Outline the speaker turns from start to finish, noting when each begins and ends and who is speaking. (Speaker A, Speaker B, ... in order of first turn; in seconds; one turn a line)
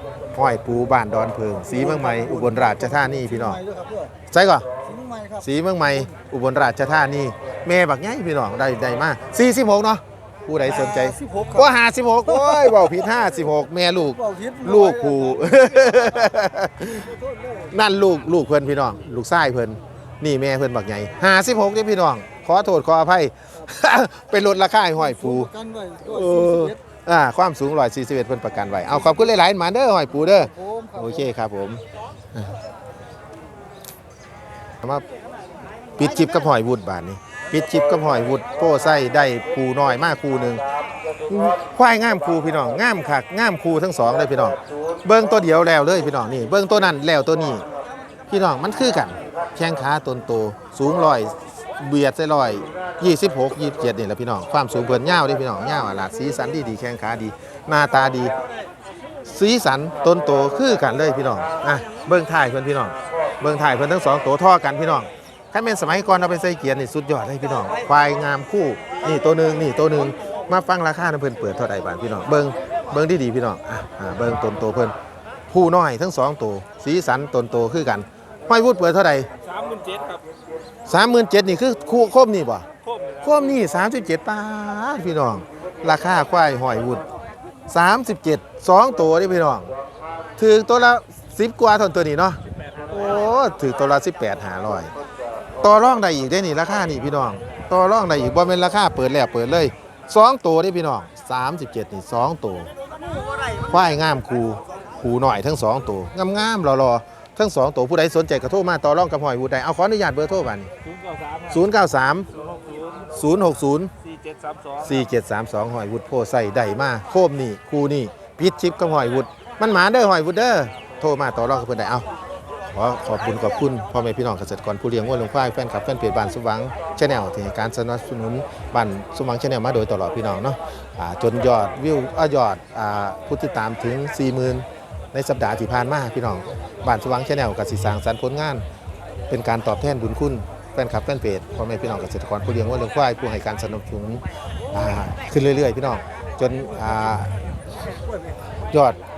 Speaker A: 0.3-3.6
Speaker B: 1.6-4.1
Speaker A: 4.3-4.7
Speaker B: 4.8-6.1
Speaker A: 5.4-17.1
Speaker B: 10.6-11.7
Speaker B: 12.3-13.0
Speaker B: 14.1-16.1
Speaker B: 17.1-17.8
Speaker A: 17.7-31.8
Speaker B: 25.0-26.8
Speaker B: 28.9-29.3
Speaker B: 30.1-31.3
Speaker A: 36.0-40.6
Speaker A: 41.3-47.6
Speaker A: 48.3-58.3
Speaker A: 59.2-74.9
Speaker A: 75.5-79.3
Speaker C: 79.4-80.2
Speaker A: 80.9-82.7
Speaker C: 82.8-83.5
Speaker A: 83.2-87.0
Speaker A: 87.7-89.7
Speaker A: 90.4-92.4
Speaker A: 92.9-94.9
Speaker A: 95.6-102.7
Speaker A: 103.6-110.7
Speaker C: 110.8-111.5
Speaker A: 111.5-112.3
Speaker C: 112.3-113.1
Speaker A: 113.1-113.9
Speaker C: 114.0-114.9
Speaker A: 114.8-122.1
Speaker A: 122.7-138.6
Speaker A: 139.3-147.3
Speaker A: 148.7-149.0